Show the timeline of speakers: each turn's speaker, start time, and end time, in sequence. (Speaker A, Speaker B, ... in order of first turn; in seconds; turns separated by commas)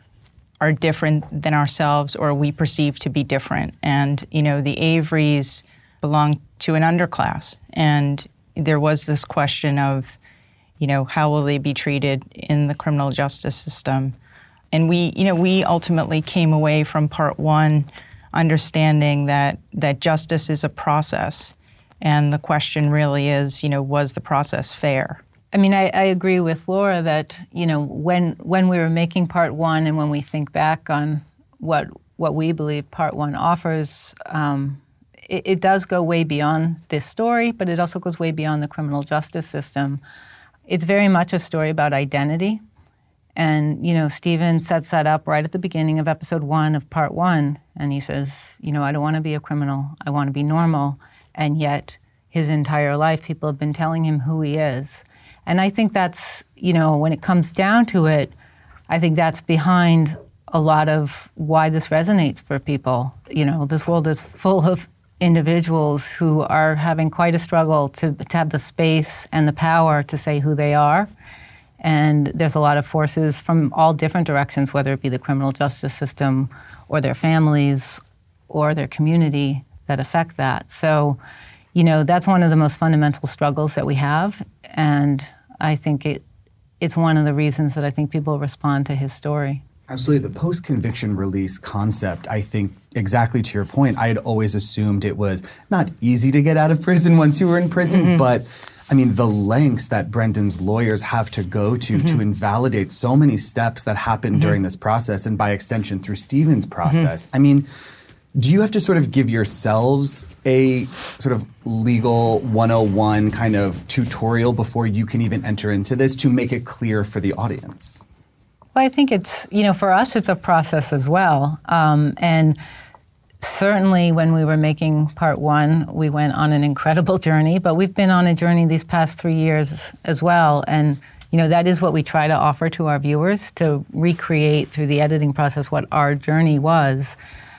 Speaker A: 0.6-10.1, Speaker A: 10.8-14.1, Speaker A: 14.7-25.2, Speaker B: 25.5-40.0, Speaker B: 40.7-42.6, Speaker B: 43.4-58.3, Speaker B: 58.9-71.1, Speaker B: 71.8-81.2, Speaker B: 81.7-86.2, Speaker B: 86.8-89.6, Speaker C: 89.9-107.7, Speaker A: 97.9-98.2, Speaker C: 108.3-118.0, Speaker B: 118.7-122.6, Speaker B: 123.4-137.2